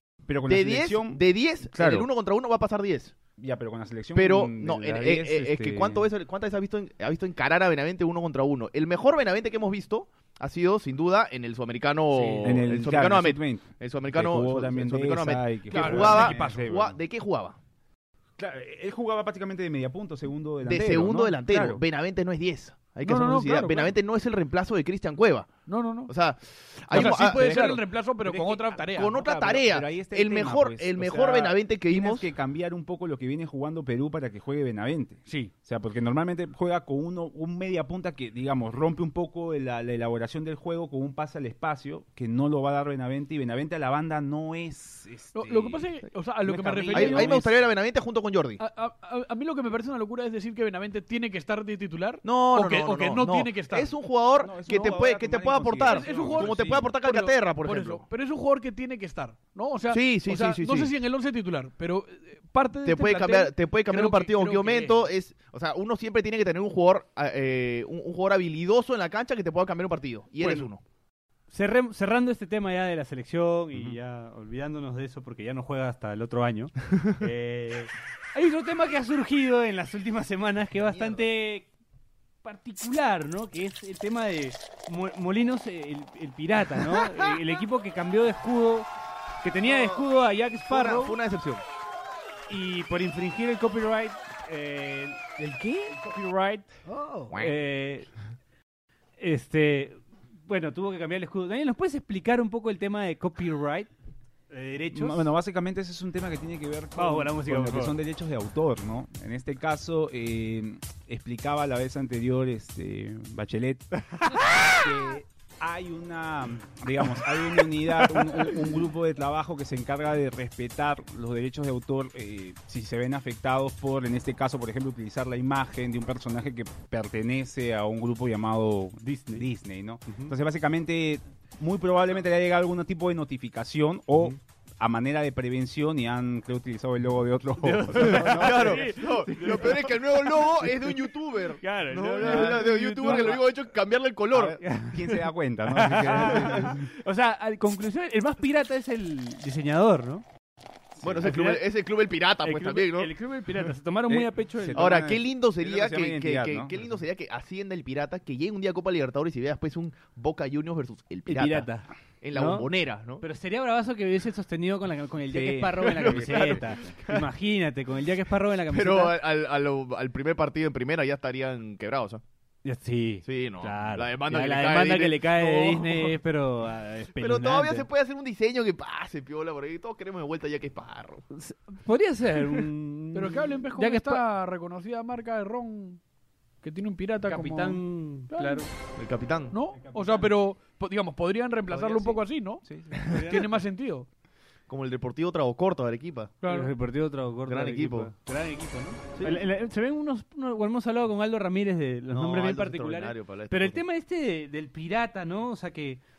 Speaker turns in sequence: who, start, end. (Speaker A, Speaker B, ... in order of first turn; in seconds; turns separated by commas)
Speaker A: 0.3-1.2, Speaker B: 0.5-3.2, Speaker A: 1.7-2.1, Speaker A: 3.4-6.1, Speaker B: 4.1-17.6, Speaker C: 12.2-12.4, Speaker A: 12.4-17.0, Speaker C: 15.7-16.7, Speaker A: 18.4-21.8, Speaker B: 20.6-25.5, Speaker C: 23.0-23.9, Speaker C: 25.7-26.1, Speaker B: 26.1-27.8, Speaker C: 26.9-29.4, Speaker A: 26.9-28.6, Speaker B: 28.3-32.3, Speaker A: 29.1-45.9, Speaker C: 35.2-35.5, Speaker C: 45.3-47.5, Speaker B: 46.5-48.6, Speaker A: 46.9-47.4, Speaker C: 48.6-53.9, Speaker B: 52.2-58.0, Speaker A: 54.4-56.9, Speaker C: 55.8-65.1, Speaker B: 59.9-60.9, Speaker B: 62.8-70.8, Speaker C: 70.4-70.7, Speaker D: 71.5-81.7, Speaker B: 80.8-81.2, Speaker D: 82.4-88.9, Speaker D: 89.4-91.2, Speaker B: 89.6-90.1, Speaker B: 90.7-91.6, Speaker D: 92.5-96.8, Speaker C: 96.8-97.3, Speaker D: 97.3-98.1, Speaker D: 99.2-103.9, Speaker D: 104.5-105.3, Speaker A: 104.9-113.9, Speaker D: 106.9-108.0, Speaker D: 114.1-114.8, Speaker A: 114.6-138.8, Speaker D: 129.0-129.5, Speaker D: 130.1-130.3, Speaker D: 137.6-141.1, Speaker B: 138.0-144.6, Speaker D: 141.6-143.5, Speaker A: 144.3-146.9, Speaker D: 144.6-150.2, Speaker A: 151.0-151.3, Speaker B: 151.0-153.1, Speaker D: 151.2-151.6, Speaker D: 152.4-154.9, Speaker A: 154.1-156.8, Speaker B: 154.7-161.7, Speaker D: 161.3-162.7, Speaker B: 162.2-163.2, Speaker D: 163.2-169.2, Speaker A: 165.3-166.9, Speaker B: 165.9-167.3, Speaker B: 168.7-172.2, Speaker D: 172.6-177.9, Speaker B: 173.2-176.2, Speaker B: 177.2-181.2, Speaker D: 181.3-184.2, Speaker C: 183.1-186.0, Speaker C: 186.6-188.7, Speaker D: 187.3-188.7, Speaker B: 189.0-189.5, Speaker C: 189.5-194.1, Speaker D: 189.7-190.3, Speaker A: 192.6-193.1, Speaker D: 193.1-193.5, Speaker B: 194.7-196.3, Speaker C: 196.4-196.7, Speaker D: 196.4-206.0, Speaker B: 197.4-198.1, Speaker B: 199.1-199.4, Speaker B: 202.1-203.8